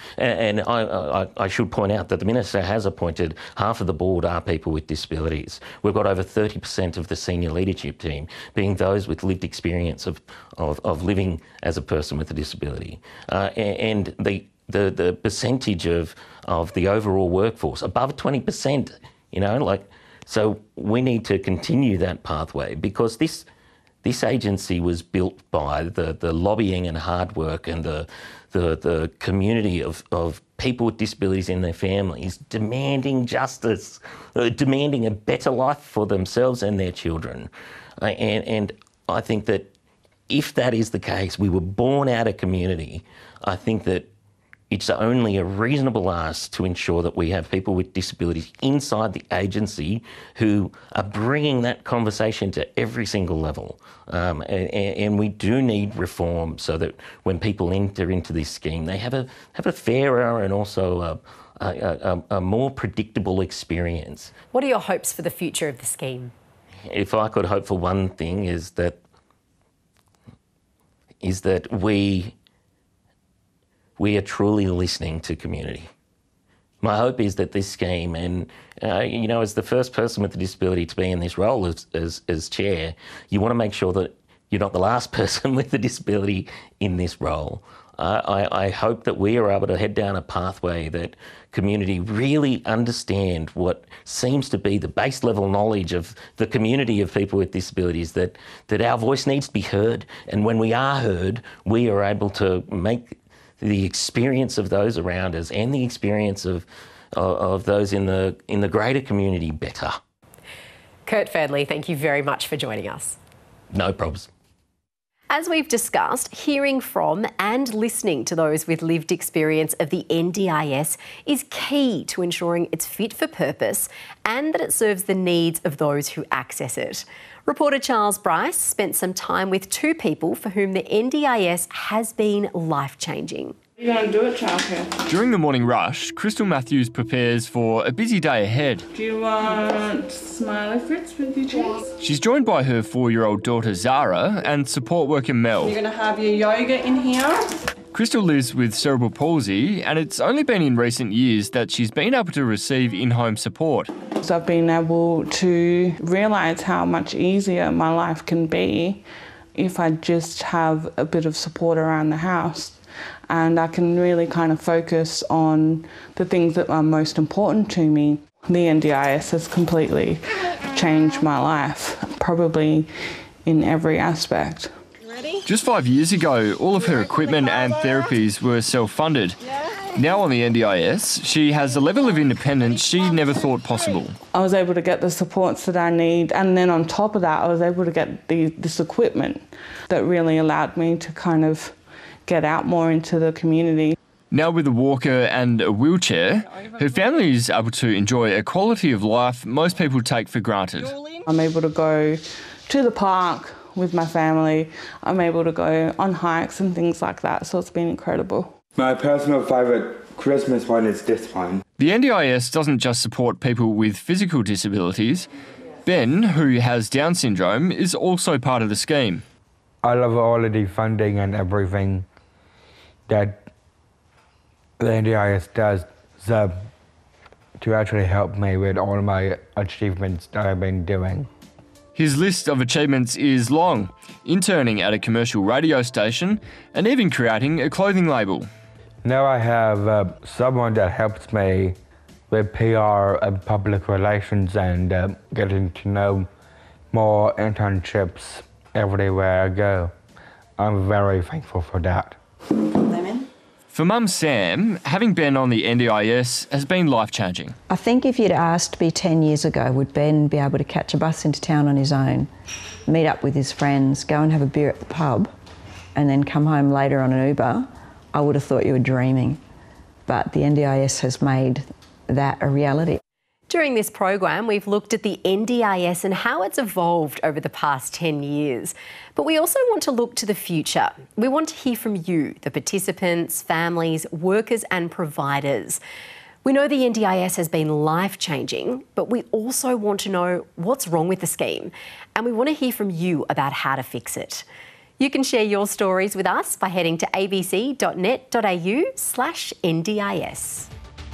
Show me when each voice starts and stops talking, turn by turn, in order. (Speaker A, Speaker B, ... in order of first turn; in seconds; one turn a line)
Speaker A: 0.2-23.4
Speaker A: 24.0-39.7
Speaker A: 40.3-44.1
Speaker A: 44.7-64.3
Speaker B: 64.5-66.3
Speaker A: 66.9-69.0
Speaker A: 71.2-72.3
Speaker A: 74.0-75.9
Speaker A: 76.8-106.6
Speaker A: 107.2-110.0
Speaker B: 111.0-113.2
Speaker A: 113.7-114.3
Speaker B: 115.3-133.6
Speaker C: 133.8-135.0
Speaker D: 135.1-138.8
Speaker C: 138.9-142.0
Speaker D: 142.0-145.8
Speaker C: 145.6-147.5
Speaker D: 147.9-153.9
Speaker C: 154.2-172.9
Speaker C: 173.4-174.8
Speaker D: 175.4-179.4
Speaker D: 179.9-184.2
Speaker C: 184.3-194.0
Speaker D: 194.3-201.0
Speaker C: 201.2-208.6
Speaker E: 208.7-211.6
Speaker D: 211.8-215.3
Speaker D: 215.8-219.2
Speaker E: 219.8-222.1
Speaker E: 223.1-223.5
Speaker E: 224.8-226.7
Speaker E: 227.6-231.3
Speaker D: 231.9-238.5
Speaker E: 239.0-241.8
Speaker E: 242.3-246.3
Speaker E: 246.9-249.9
Speaker E: 250.6-252.2
Speaker D: 253.7-257.5
Speaker F: 257.7-262.3
Speaker F: 262.9-265.3
Speaker F: 265.9-269.4
Speaker F: 270.1-273.0
Speaker B: 273.5-285.8
Speaker B: 286.4-294.4
Speaker B: 295.0-300.7